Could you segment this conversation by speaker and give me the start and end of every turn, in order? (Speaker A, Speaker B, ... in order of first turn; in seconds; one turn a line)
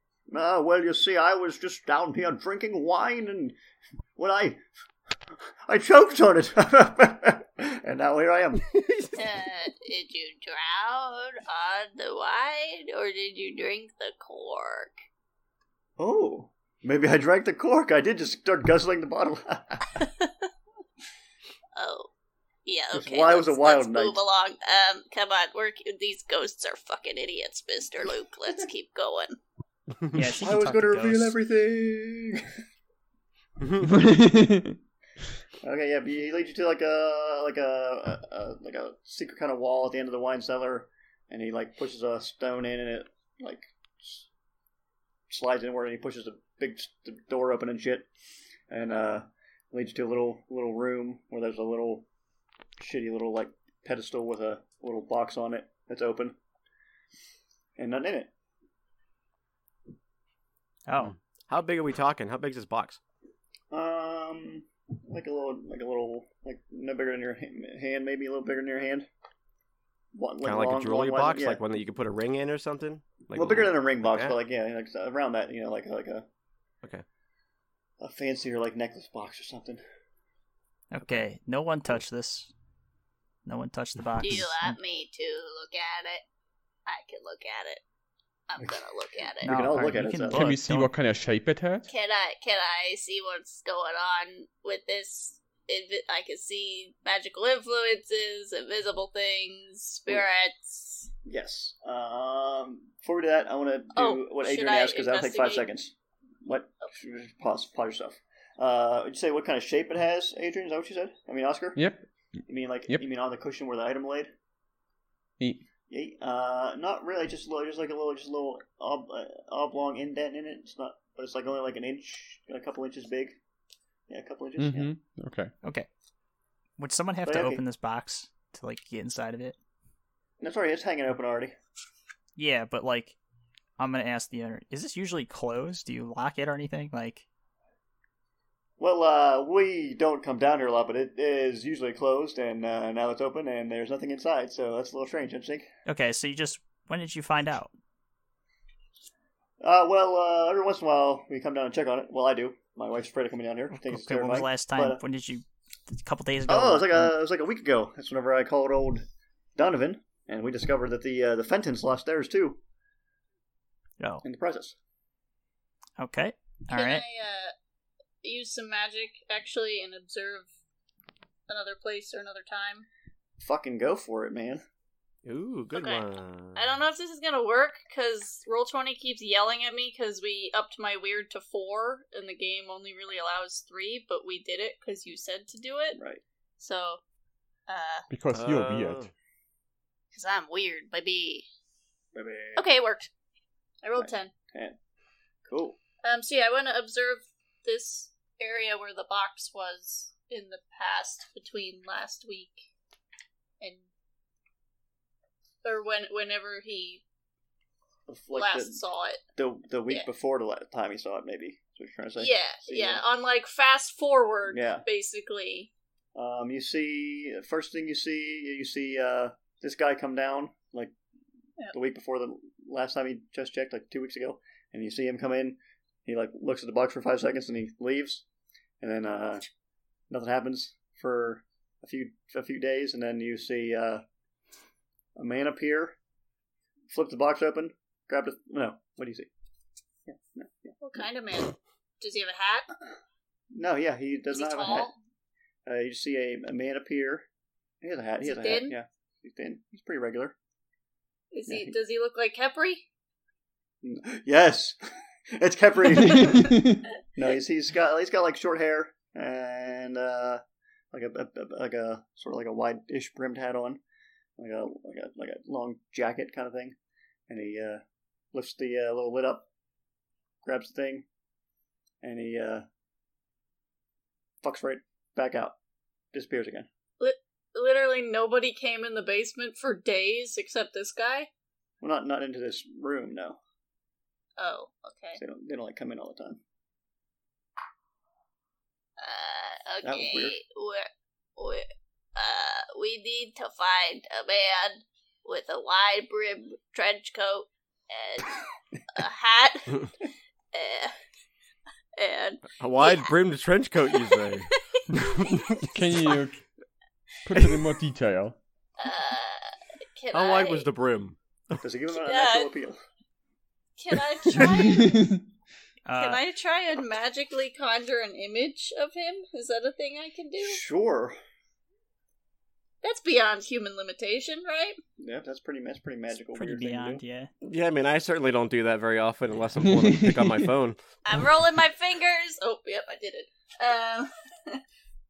Speaker A: 0.3-3.6
Speaker A: 4.2-4.6
Speaker A: 5.7-8.7
Speaker B: 8.7-9.2
Speaker C: 9.1-15.0
Speaker A: 16.0-20.0
Speaker C: 20.0-20.3
Speaker C: 21.7-22.1
Speaker C: 22.6-29.4
Speaker A: 22.9-24.2
Speaker D: 30.1-31.3
Speaker A: 30.4-32.4
Speaker B: 33.6-34.0
Speaker E: 33.9-34.8
Speaker A: 35.6-44.2
Speaker A: 45.3-48.1
Speaker A: 48.7-52.0
Speaker A: 52.8-56.4
Speaker A: 57.8-58.3
Speaker D: 60.9-61.1
Speaker B: 61.0-63.0
Speaker A: 63.7-69.1
Speaker A: 70.1-71.6
Speaker B: 70.4-74.3
Speaker A: 73.3-76.2
Speaker A: 78.0-79.8
Speaker D: 80.9-82.5
Speaker D: 83.4-84.8
Speaker C: 84.2-86.2
Speaker C: 86.8-87.8
Speaker C: 88.5-89.6
Speaker A: 89.4-90.6
Speaker D: 89.4-90.9
Speaker E: 90.3-91.9
Speaker C: 91.9-101.1
Speaker A: 101.2-105.9
Speaker C: 103.9-105.7
Speaker A: 106.4-111.8
Speaker E: 111.8-112.0
Speaker A: 112.5-114.3
Speaker A: 115.9-123.4
Speaker A: 124.1-124.9
Speaker E: 124.6-125.5
Speaker D: 125.6-125.9
Speaker D: 126.8-129.6
Speaker A: 127.2-127.6
Speaker A: 130.4-131.5
Speaker D: 132.3-133.2
Speaker D: 133.8-137.2
Speaker A: 138.8-145.7
Speaker D: 145.8-147.7
Speaker A: 149.6-155.0
Speaker D: 153.8-157.1
Speaker A: 156.5-162.6
Speaker D: 164.0-164.2
Speaker A: 164.2-164.8
Speaker D: 166.0-167.0
Speaker C: 166.7-167.5
Speaker C: 168.2-170.5
Speaker C: 171.5-172.8
Speaker A: 173.4-174.6
Speaker B: 175.2-176.7
Speaker C: 175.7-186.0
Speaker A: 185.9-186.2
Speaker C: 186.6-187.0
Speaker C: 187.7-188.1
Speaker E: 188.1-189.1
Speaker B: 188.3-189.1
Speaker C: 190.1-191.5
Speaker A: 192.1-192.6
Speaker C: 192.6-193.1
Speaker C: 193.8-194.3
Speaker A: 194.0-194.8
Speaker A: 195.5-195.8
Speaker C: 196.0-202.7
Speaker C: 205.6-207.0
Speaker A: 208.1-208.8
Speaker C: 208.3-209.2
Speaker A: 209.3-213.0
Speaker C: 212.2-215.7
Speaker A: 214.5-214.8
Speaker A: 216.1-220.9
Speaker A: 221.7-228.2
Speaker A: 228.8-229.4
Speaker A: 230.1-234.0
Speaker A: 235.2-235.9
Speaker A: 236.9-239.3
Speaker A: 240.1-240.8
Speaker C: 240.8-242.7
Speaker A: 243.5-244.9
Speaker C: 244.3-244.9
Speaker A: 245.7-247.2
Speaker A: 247.8-250.3
Speaker C: 248.2-248.7
Speaker C: 251.3-252.8
Speaker A: 251.5-251.7
Speaker A: 253.8-254.8
Speaker A: 255.3-263.8
Speaker E: 256.1-256.8
Speaker A: 264.4-266.8
Speaker A: 267.3-267.8
Speaker A: 268.3-269.5
Speaker A: 270.4-271.1
Speaker A: 272.0-272.6
Speaker A: 274.4-275.6
Speaker A: 276.1-276.7
Speaker C: 277.0-281.3
Speaker A: 281.8-283.4
Speaker C: 284.4-285.2
Speaker A: 285.2-286.4
Speaker C: 289.0-299.9
Speaker A: 289.8-290.4
Speaker C: 300.5-300.9
Speaker C: 301.9-303.1
Speaker B: 302.5-305.7
Speaker C: 303.9-306.2
Speaker E: 305.7-306.4
Speaker E: 307.2-308.4
Speaker C: 308.8-310.7
Speaker B: 310.1-311.6
Speaker A: 311.6-312.8
Speaker C: 311.9-312.5
Speaker C: 313.8-315.2
Speaker E: 314.4-315.2
Speaker D: 315.9-316.2
Speaker C: 315.9-320.6
Speaker A: 320.4-321.2
Speaker C: 322.8-324.8
Speaker A: 325.0-327.0
Speaker D: 326.3-327.3
Speaker B: 327.4-330.8
Speaker E: 329.6-330.5
Speaker C: 331.0-334.6